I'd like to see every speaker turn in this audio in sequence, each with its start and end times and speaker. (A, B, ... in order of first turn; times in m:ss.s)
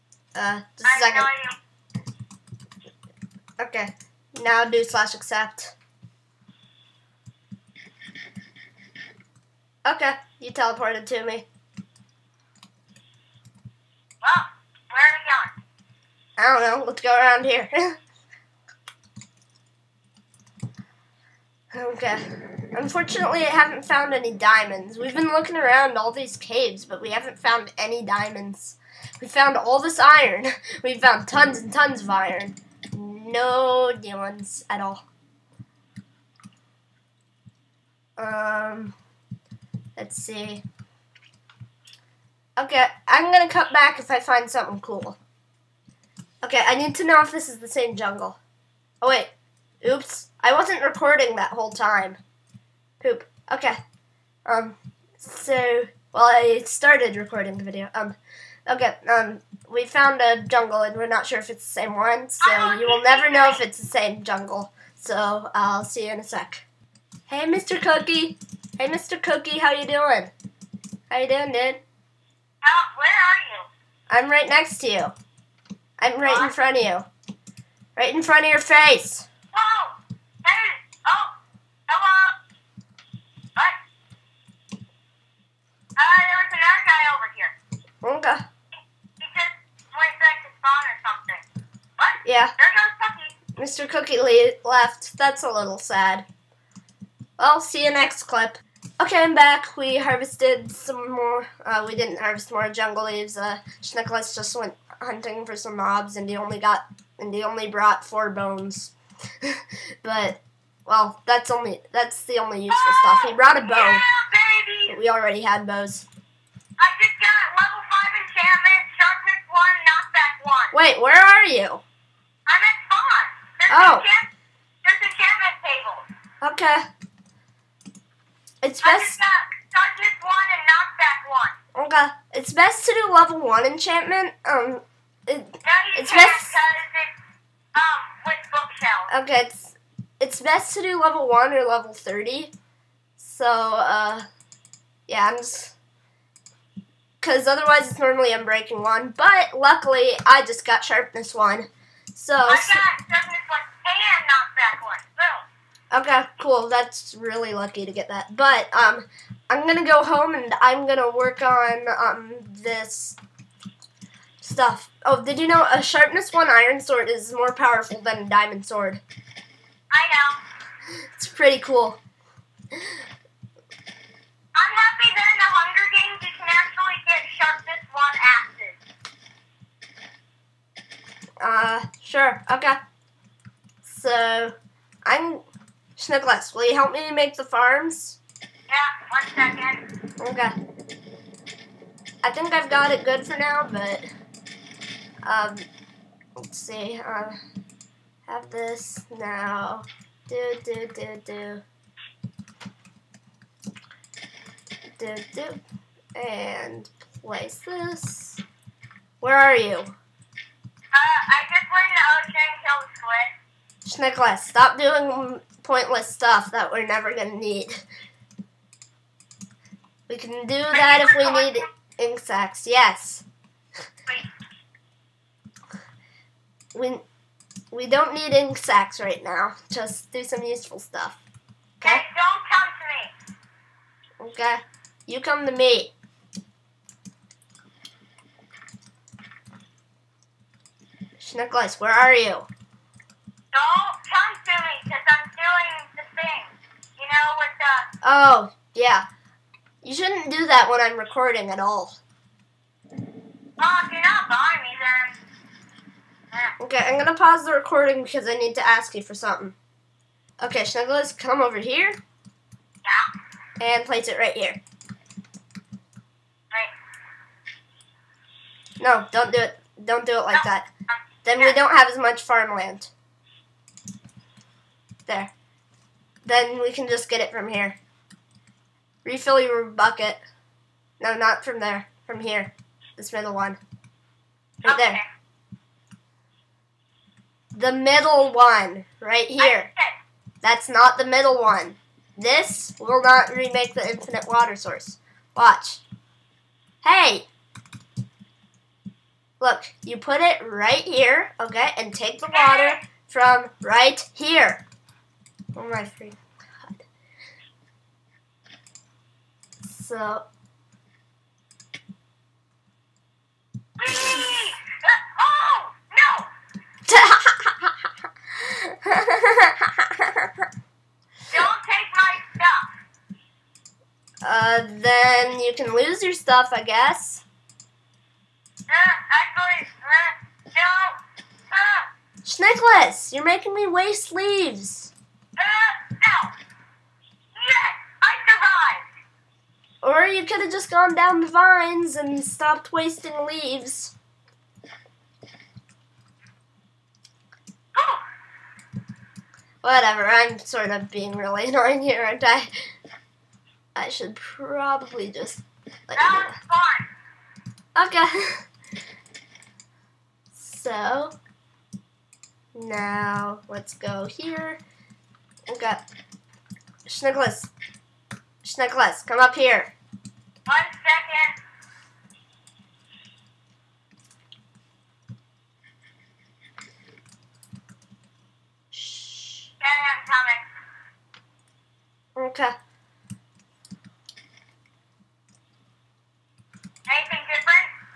0:00.4-0:01.3 A
0:00.8-0:01.6 B
0:03.6-0:05.8 A
0:09.8-0:11.5 A
0:14.2-0:15.5 B
0:16.4-0:18.0 A
0:21.7-0:35.0 A
0:38.2-0:39.0 A
0:40.0-0:40.6 A
0:42.6-0:45.2 A
0:46.4-0:48.4 A
0:49.0-0:49.3 A
0:49.8-0:52.2 A
0:53.0-0:53.8 A
0:54.5-1:06.7 A
1:02.4-1:03.6 B
1:07.3-1:10.3 A
1:11.1-1:11.8 A
1:12.6-1:13.7 B
1:14.1-1:15.1 A
1:16.0-1:17.1 A
1:16.2-1:16.5 B
1:18.0-1:19.3 A
1:19.5-1:21.4 B
1:21.9-1:22.4 B
1:26.0-1:27.5 B
1:28.0-1:28.4 A
1:29.2-1:31.4 B
1:32.0-1:33.4 B
1:32.2-1:32.5 A
1:33.6-1:36.3 A
1:37.4-1:54.0 A
1:52.7-1:55.0 B
1:54.9-1:56.1 A
1:56.8-2:00.7 B
2:00.7-2:01.8 A
2:02.5-2:04.3 B
2:03.7-2:04.0 A
2:04.8-2:06.1 B
2:06.4-2:06.8 A
2:08.6-2:09.2 A
2:08.8-2:11.6 B
2:11.8-2:16.6 A
2:15.6-2:17.1 B
2:17.8-2:19.1 B
2:19.1-2:22.5 A
2:23.2-2:24.2 A
2:25.1-2:25.8 A
2:27.2-2:32.8 A
2:32.5-2:35.5 B
2:35.9-2:43.2 A
2:44.4-2:49.0 A
2:49.9-2:50.4 B
2:51.2-2:52.0 A
2:54.6-2:58.8 B
3:01.4-3:02.8 A
3:03.8-3:04.5 A
3:05.0-3:05.4 A
3:06.0-3:08.2 A
3:08.7-3:09.8 B
3:10.2-3:10.6 A
3:12.2-3:14.0 A
3:15.2-3:15.7 A
3:16.4-3:17.4 A
3:18.3-3:21.6 A
3:25.0-3:25.6 A
3:26.2-3:28.4 A
3:29.2-3:30.0 A
3:30.9-3:33.3 B
3:33.8-3:37.8 A
3:40.1-3:43.2 A
3:40.7-3:41.7 B
3:46.7-3:47.0 A
3:47.7-3:51.2 A
3:51.8-3:53.1 B
3:54.2-3:55.9 A
4:01.2-4:02.5 A
4:03.5-4:07.9 B
4:08.0-4:09.0 A
4:09.8-4:12.0 A
4:13.6-4:15.2 B
4:16.6-4:19.6 A
4:20.4-4:22.0 A
4:23.6-4:24.6 A
4:28.8-4:30.7 A
4:30.3-4:31.6 B
4:31.2-4:32.9 A
4:36.2-4:37.8 A
4:39.0-4:40.2 A
4:41.0-4:43.6 A
4:44.6-4:45.0 B
4:44.6-4:45.0 A
4:47.5-4:49.7 A
4:49.4-4:50.0 B
4:50.4-4:55.8 A
4:56.8-4:57.3 A
4:59.4-5:04.6 A
5:02.3-5:02.8 B
5:05.6-5:06.8 A
5:09.6-5:10.2 A
5:13.8-5:16.3 B
5:16.9-5:17.8 A
5:18.4-5:20.3 A
5:21.3-5:22.7 B
5:24.2-5:27.2 A
5:28.7-5:31.0 B
5:31.5-5:31.9 B
5:32.2-5:34.9 A
5:35.4-5:36.4 B
5:37.4-5:38.9 B
5:39.8-5:43.9 A
5:47.7-5:48.0 B
5:49.6-5:52.5 A
5:53.8-5:56.4 A
5:56.0-5:56.9 B
5:57.8-5:58.4 A
6:00.4-6:01.2 A
6:02.6-6:04.6 A
6:05.5-6:05.8 A
6:06.9-6:07.5 A
6:08.4-6:09.7 A
6:10.5-6:11.4 B
6:18.7-6:19.5 A
6:19.6-6:20.5 B
6:22.2-6:22.5 A
6:26.9-6:27.7 B